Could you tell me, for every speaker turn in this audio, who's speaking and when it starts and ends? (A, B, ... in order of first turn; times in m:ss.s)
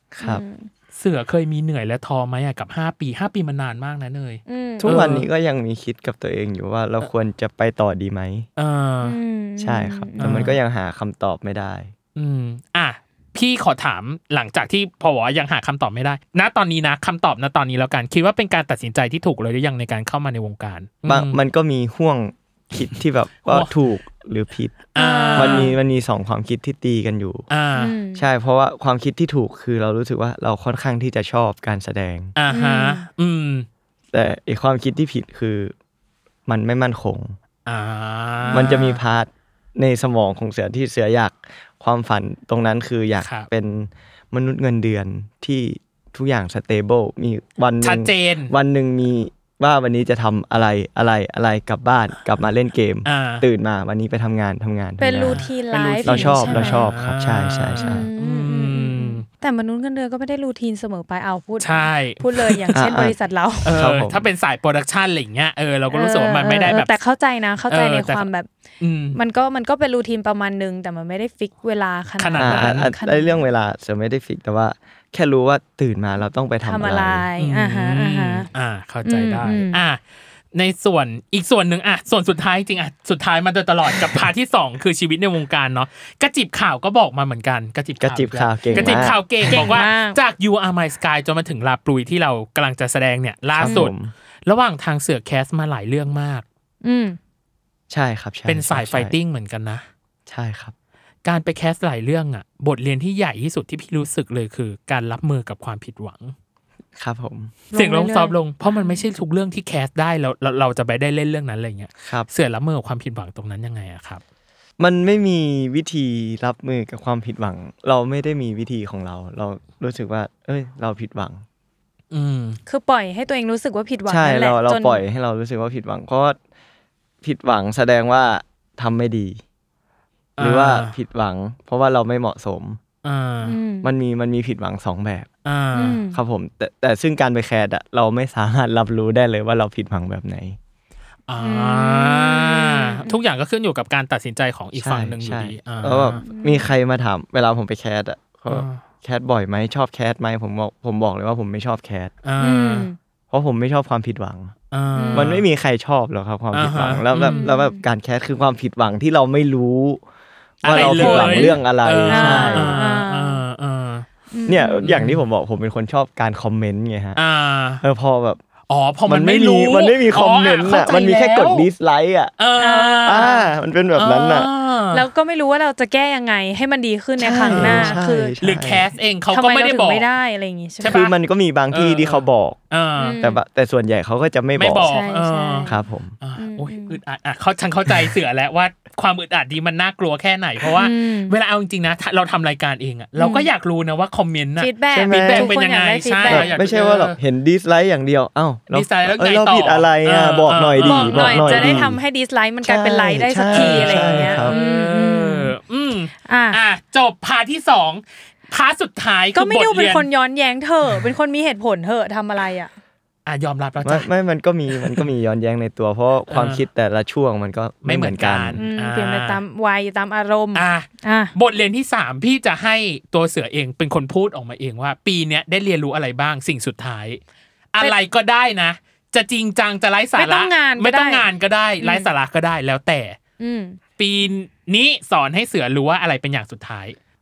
0:00.1-0:00.4 A
0:00.2-0:00.7 B
0:00.9-0:05.3 C
0:04.5-0:05.1 B
0:04.8-0:08.5 A
0:08.6-0:09.2 C
0:09.0-0:10.4 B
0:09.6-0:11.9 A
0:10.2-0:10.6 C
0:12.2-0:21.4 C
0:21.0-0:24.8 A
0:24.9-0:25.7 C
0:25.0-0:25.7 B
0:25.3-0:27.4 A
0:27.5-0:27.9 C
0:27.8-0:28.2 B
0:28.1-0:32.3 A
0:32.4-0:33.7 C
0:32.5-0:33.0 B
0:34.1-0:35.7 A
0:36.4-0:37.4 A
0:37.6-0:39.0 C
0:38.5-0:55.4 A
0:43.2-0:43.5 C
0:47.8-0:48.5 C
0:53.0-0:53.4 C
0:55.0-0:56.9 B
0:55.2-0:59.2 C
0:56.0-0:58.1 A
0:57.8-1:03.8 B
1:01.6-1:02.7 C
1:02.7-1:03.1 A
1:03.6-1:06.9 C
1:03.7-1:04.3 A
1:05.9-1:08.5 B
1:07.7-1:08.2 C
1:08.8-1:09.2 C
1:09.1-1:13.4 B
1:12.2-1:12.9 C
1:12.4-1:17.3 A
1:16.6-1:18.5 B
1:17.4-1:20.0 C
1:19.0-1:19.8 B
1:20.5-1:33.9 C
1:28.0-1:29.8 A
1:28.7-1:30.2 B
1:33.5-1:34.1 A
1:33.6-1:33.9 B
1:34.4-1:36.4 C
1:36.8-1:37.2 B
1:37.9-1:39.1 A
1:38.5-1:39.8 C
1:40.2-1:40.7 A
1:41.2-1:46.3 C
1:47.0-1:47.6 A
1:47.7-1:49.0 B
1:47.7-1:54.2 C
1:54.8-2:01.4 A
2:02.1-2:02.6 C
2:02.7-2:05.0 B
2:04.1-2:06.4 A
2:07.2-2:09.4 A
2:10.4-2:10.9 C
2:10.4-2:12.8 A
2:13.0-2:13.6 C
2:13.4-2:13.9 B
2:13.8-2:15.3 A
2:15.4-2:16.0 C
2:15.7-2:16.2 B
2:16.1-2:20.6 A
2:21.3-2:26.2 C
2:21.4-2:23.2 B
2:24.8-2:32.1 A
2:26.2-2:26.7 B
2:28.5-2:28.8 C
2:32.2-2:32.9 C
2:32.4-2:33.0 B
2:33.3-2:34.5 A
2:34.7-2:35.4 C
2:35.0-2:35.3 B
2:35.1-2:40.0 A
2:36.5-2:37.4 C
2:37.3-2:37.8 B
2:40.6-2:42.7 A
2:40.6-2:44.0 C
2:40.6-2:43.4 B
2:44.3-2:45.0 B
2:44.5-2:47.2 A
2:44.8-2:45.2 C
2:47.2-2:47.8 C
2:47.8-2:48.4 A
2:48.7-2:51.7 C
2:49.1-2:52.3 A
2:52.4-2:53.3 C
2:52.6-2:53.5 B
2:53.0-2:54.5 A
2:54.0-2:55.1 C
2:54.9-2:58.4 B
2:57.2-2:58.9 A
2:57.4-3:00.1 C
2:59.3-3:01.0 B
3:00.8-3:01.1 C
3:00.8-3:02.6 A
3:01.7-3:03.2 C
3:03.0-3:03.4 B
3:03.2-3:04.9 A
3:04.6-3:05.7 C
3:04.8-3:05.8 B
3:05.6-3:06.1 A
3:06.2-3:17.2 C
3:06.4-3:07.0 B
3:10.7-3:11.4 B
3:13.2-3:13.5 B
3:14.6-3:16.6 B
3:14.9-3:15.5 A
3:16.2-3:22.0 A
3:18.7-3:21.9 C
3:20.8-3:25.5 B
3:22.6-3:24.6 A
3:23.5-3:30.1 C
3:26.2-3:26.6 B
3:29.3-3:32.7 B
3:33.2-3:34.1 C
3:33.8-3:38.6 A
3:34.7-3:35.0 C
3:36.3-3:36.6 C
3:37.8-3:39.4 C
3:38.6-3:41.3 B
3:40.5-3:47.2 C
3:47.7-3:53.2 C
3:50.2-3:51.2 B
3:51.8-3:52.1 B
3:53.4-3:53.8 B
3:54.0-3:57.0 C